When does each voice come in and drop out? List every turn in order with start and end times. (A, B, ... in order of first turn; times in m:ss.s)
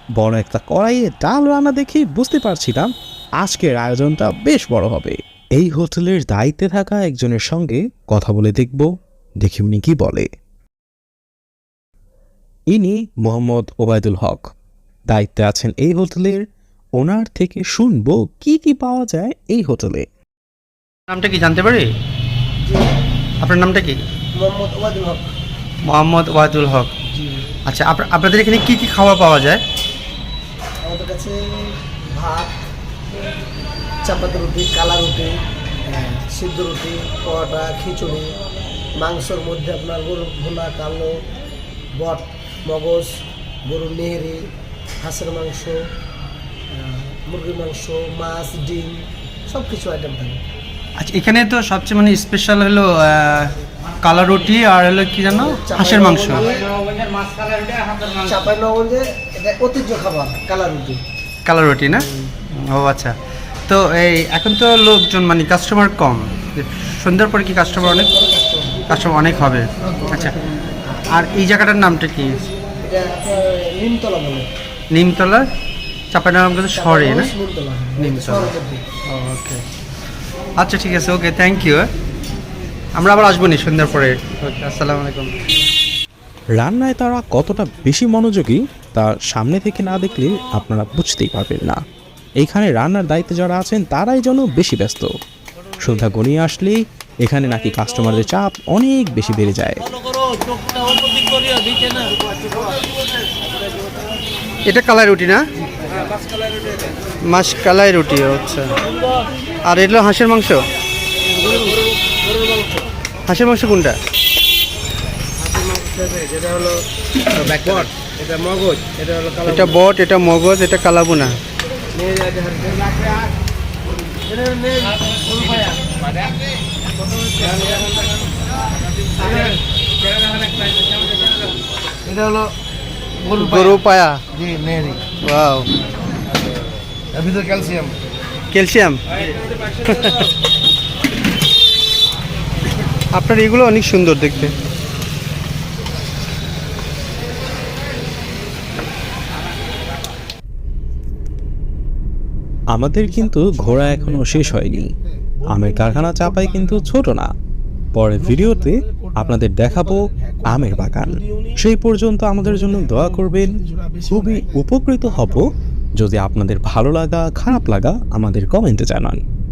0:00.2-0:08.9 A
0:09.4-0:10.3 A
0:12.7-0:14.4 A
0:15.1-0:16.4 A
0:17.0-0:20.0 A
0:21.1-0:21.9 B
0:23.4-0:24.0 B
0:24.4-0:25.3 C
0:25.8-0:26.9 B
0:27.1-0:27.4 C
0:27.6-0:29.6 B
0:30.8-0:32.6 C
0:34.0-0:35.4 C
0:35.9-0:36.2 B
0:36.2-0:38.4 C
0:39.0-0:41.2 C
0:42.0-0:43.1 C
0:43.6-0:44.4 C
0:45.0-0:45.8 C
0:46.7-0:50.4 C
0:51.0-0:58.4 B
0:55.3-0:56.6 C
0:58.2-1:01.0 C
1:01.4-1:03.2 B
1:03.7-1:08.1 B
1:07.9-1:09.0 C
1:08.9-1:10.4 B
1:10.0-1:10.3 C
1:11.1-1:12.4 B
1:12.8-1:14.5 C
1:14.9-1:15.4 B
1:16.1-1:17.3 B
1:16.7-1:18.8 C
1:18.0-1:18.5 B
1:19.1-1:19.6 B
1:20.6-1:21.9 B
1:23.0-1:25.4 B
1:26.6-1:31.8 A
1:32.4-1:35.1 A
1:35.8-1:39.8 A
1:44.7-1:45.4 B
1:47.3-1:48.7 B
1:49.6-1:50.6 B
1:51.3-1:52.9 C
1:53.3-1:54.0 B
1:55.4-1:56.8 C
1:57.4-1:59.8 C
1:59.4-2:01.4 B
2:01.9-2:03.1 C
2:04.1-2:05.9 C
2:07.2-2:07.8 C
2:09.2-2:09.5 C
2:12.0-2:12.5 C
2:13.2-2:13.8 C
2:13.3-2:14.2 B
2:14.3-2:15.1 C
2:15.2-2:15.7 B
2:17.1-2:17.9 C
2:18.5-2:20.3 B
2:23.1-2:24.5 B
2:32.7-2:34.9 A
2:35.4-2:37.3 A
2:37.9-2:49.2 A